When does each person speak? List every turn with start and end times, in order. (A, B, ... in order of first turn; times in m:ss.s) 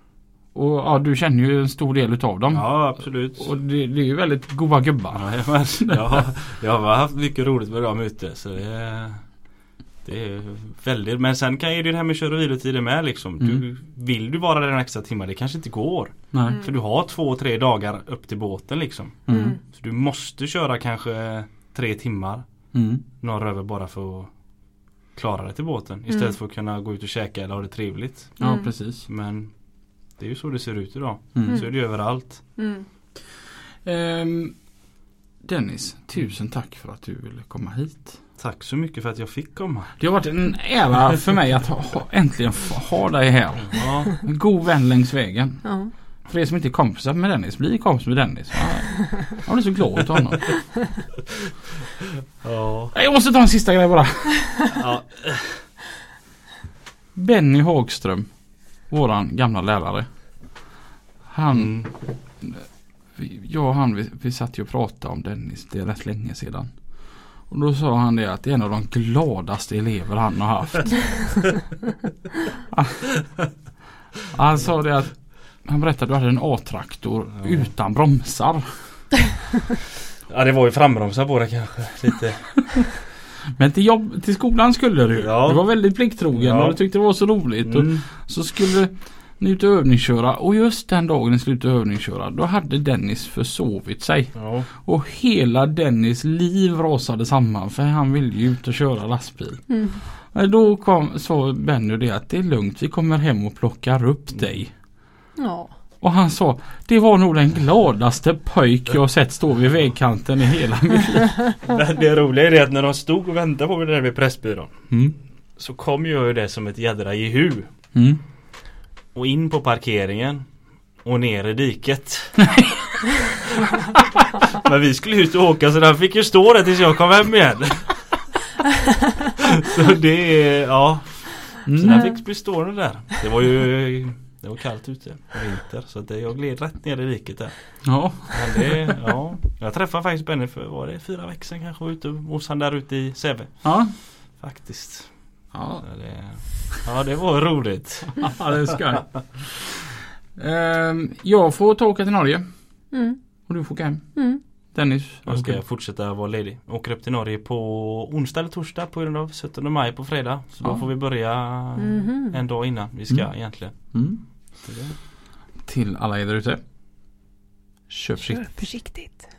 0:00.5-0:06.2 A
0:02.5-0:03.5 B
0:05.1-0:32.6 B
0:16.4-0:16.7 C
0:19.3-0:19.6 A
0:19.3-0:19.6 C
0:22.7-0:23.0 A
0:26.1-0:26.4 C
0:28.4-0:28.7 C
0:28.4-0:29.0 A
0:31.3-0:31.6 A
0:31.4-0:32.9 C
0:33.8-0:34.7 A
0:35.4-0:38.2 A
0:38.4-0:40.0 B
0:40.0-0:50.8 A
0:43.7-0:44.1 B
0:45.6-0:45.9 C
0:52.4-0:52.9 B
0:52.9-0:54.7 A
0:54.7-0:55.7 B
0:57.1-1:00.6 A
1:01.2-1:11.5 A
1:01.5-1:01.9 B
1:12.7-1:13.4 A
1:14.3-1:19.1 A
1:17.4-1:17.7 B
1:20.3-1:23.0 B
1:23.5-1:44.7 A
1:25.2-1:28.0 B
1:34.3-1:34.7 B
1:39.7-1:40.0 C
1:45.4-1:45.7 C
1:46.0-1:51.5 A
1:51.6-1:54.9 B
1:54.9-1:55.2 A
1:55.6-1:57.7 B
1:57.9-1:58.2 A
1:59.1-2:02.8 B
2:04.5-2:08.2 B
2:09.6-2:28.6 B
2:11.6-2:12.1 A
2:17.8-2:18.7 A
2:23.6-2:23.9 A
2:25.5-2:25.9 A
2:28.2-2:29.8 A
2:30.3-2:32.9 A
2:32.9-2:33.5 C
2:33.5-2:35.6 A
2:34.1-2:34.4 C
2:35.2-2:45.0 B
2:41.8-2:42.4 C
2:43.1-2:44.2 A
2:45.6-2:46.6 A
2:47.9-2:48.6 A
2:48.2-2:49.3 C